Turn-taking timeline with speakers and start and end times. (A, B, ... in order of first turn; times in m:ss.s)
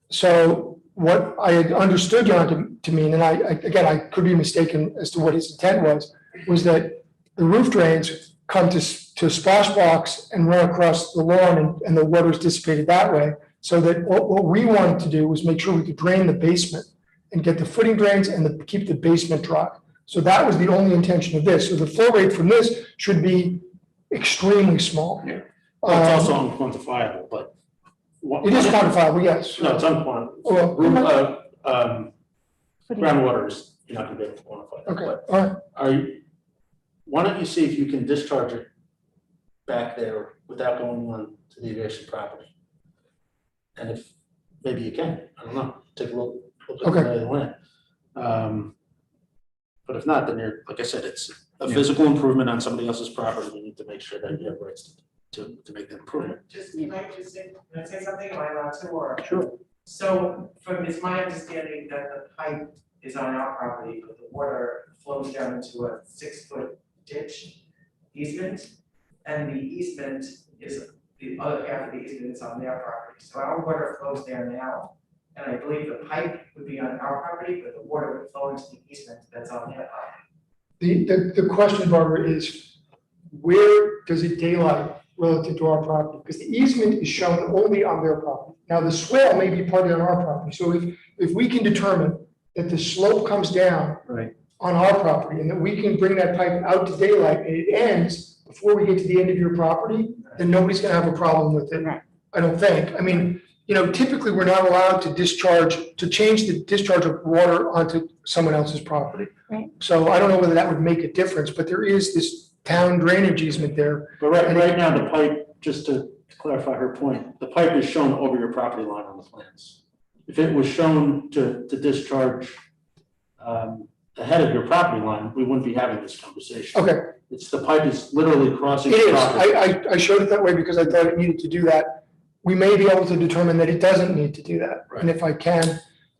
0:00.1-0:26.4 A
0:25.2-0:27.5 B
0:28.2-0:32.1 B
0:28.4-0:29.9 A
0:30.4-0:31.0 A
0:32.9-0:35.2 B
0:34.9-0:35.6 A
0:35.7-0:36.2 B
0:37.0-0:38.7 B
0:39.6-0:42.5 B
0:43.8-0:44.1 B
0:44.6-0:47.5 B
0:46.8-0:47.1 A
0:48.2-0:48.7 B
0:49.8-0:56.4 B
0:56.2-1:07.6 C
1:08.1-1:08.7 C
1:09.2-1:20.1 C
1:20.8-1:22.7 A
1:23.3-1:34.1 A
1:34.6-1:54.8 A
1:54.2-2:02.5 B
2:03.4-2:09.6 B
2:06.7-2:07.1 A
2:08.8-2:15.8 A